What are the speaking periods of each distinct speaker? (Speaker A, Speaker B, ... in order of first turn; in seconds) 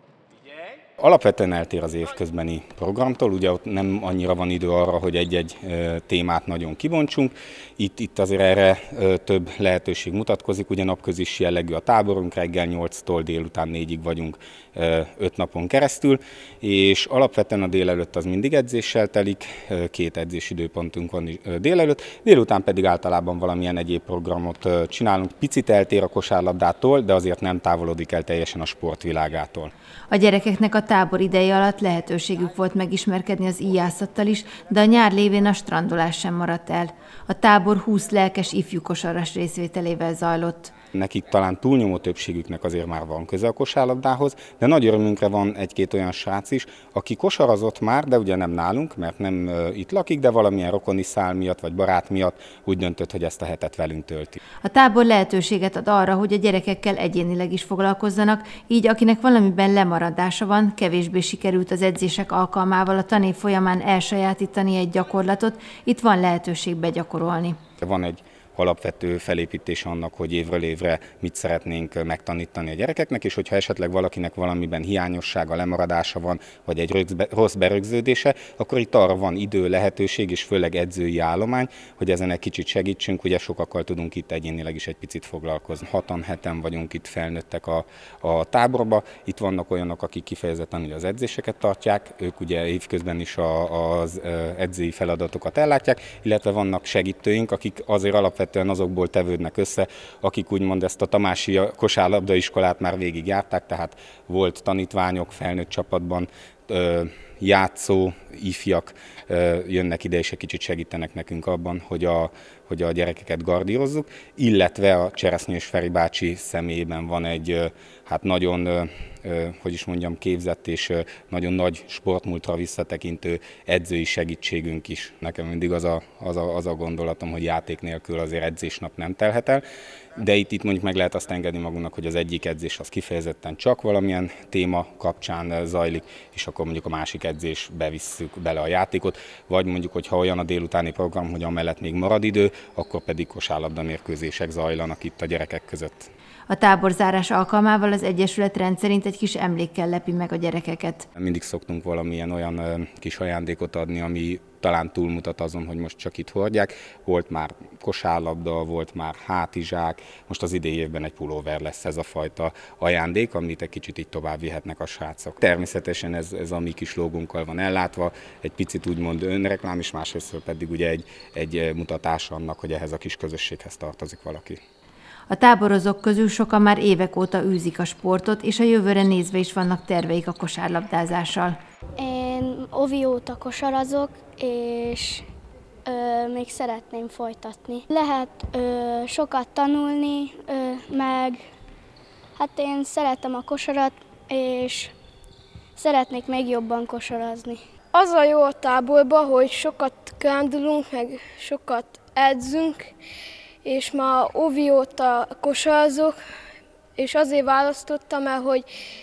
Speaker A: 0.4-29.7, 40.9-54.4, 67.8-146.1, 151.2-174.6
Speaker B: 30.1-40.7, 54.6-67.6, 146.5-151.1, 175.3-181.6
Speaker C: 182.0-185.2, 185.8-191.4, 192.4-194.9, 195.8-197.6
Speaker D: 197.9-202.9, 203.6-206.2, 207.0-208.7